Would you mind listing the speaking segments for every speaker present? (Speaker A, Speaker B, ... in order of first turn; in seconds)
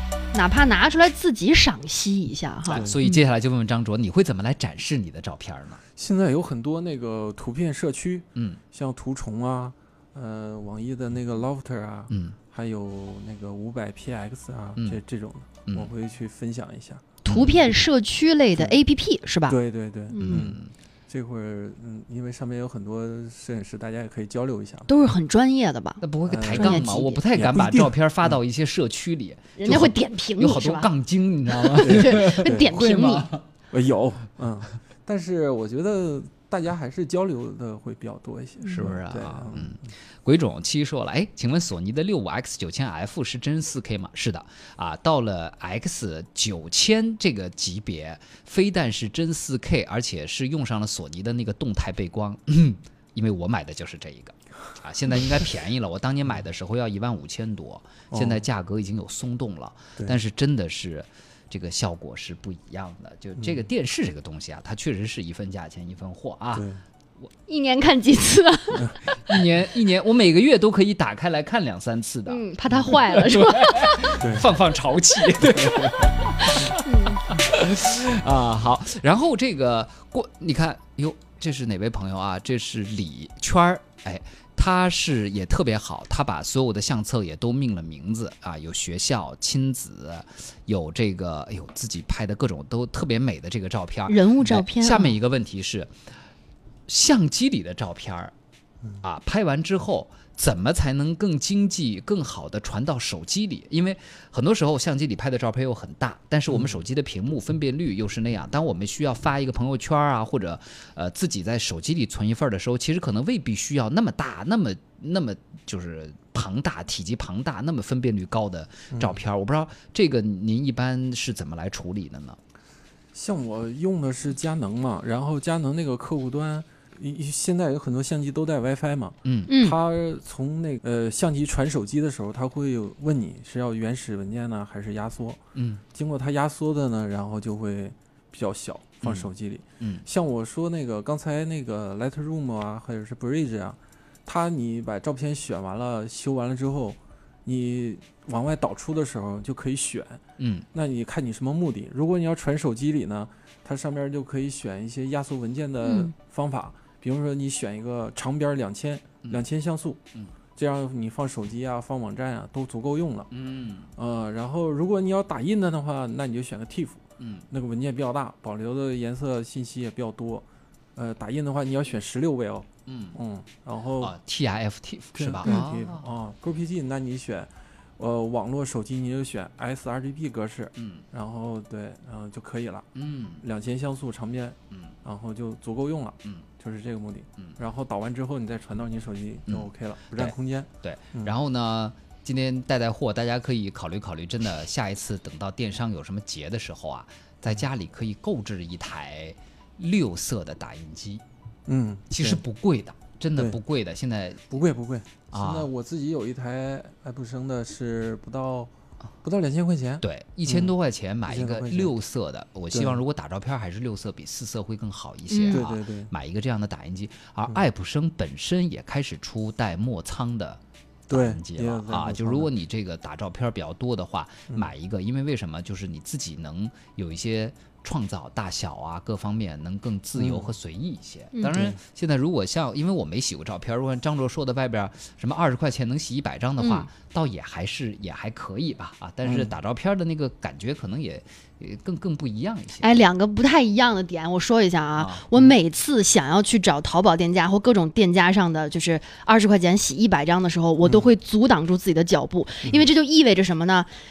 Speaker A: 0.3-3.2, 17.3-19.6, 20.1-20.5, 24.9-27.2, 29.6-30.9, 31.7-33.3, 67.5-69.0, 72.3-74.2, 76.5-77.3, 94.1-95.2, 129.5-129.8, 155.8-156.1, 215.3-215.6, 231.3-231.6, 236.6-236.9, 242.8-253.9
Speaker B: 2.7-3.0, 6.0-17.8, 19.5-24.9, 26.3-28.4, 31.8-32.8, 33.7-39.8, 58.1-58.5, 66.5-66.8, 74.2-74.5, 75.6-76.0, 106.5-106.8, 118.9-119.2, 123.1-135.4, 135.9-150.2, 150.7-160.0, 160.6-163.3, 164.0-174.2, 175.2-182.9, 183.4-191.3, 201.7-202.4, 204.5-208.7, 209.2-210.7, 211.3-211.9, 212.7-213.0, 215.5-216.1, 221.1-222.5, 230.2-230.5, 231.5-231.8, 239.2-239.6, 250.8-251.1
Speaker C: 2.7-5.8, 12.1-12.4, 17.2-17.6, 20.2-20.7, 26.0-33.4, 38.6-66.7, 69.2-95.9, 96.9-98.3, 99.0-122.4, 129.2-129.5, 135.6-135.8, 139.0-139.3, 139.8-140.1, 150.4-150.7, 163.3-163.9, 167.2-167.4, 172.9-173.2, 174.0-176.1, 180.8-181.0, 182.9-183.4, 189.5-201.2, 202.1-204.5, 205.3-205.7, 210.0-243.0, 245.0-245.2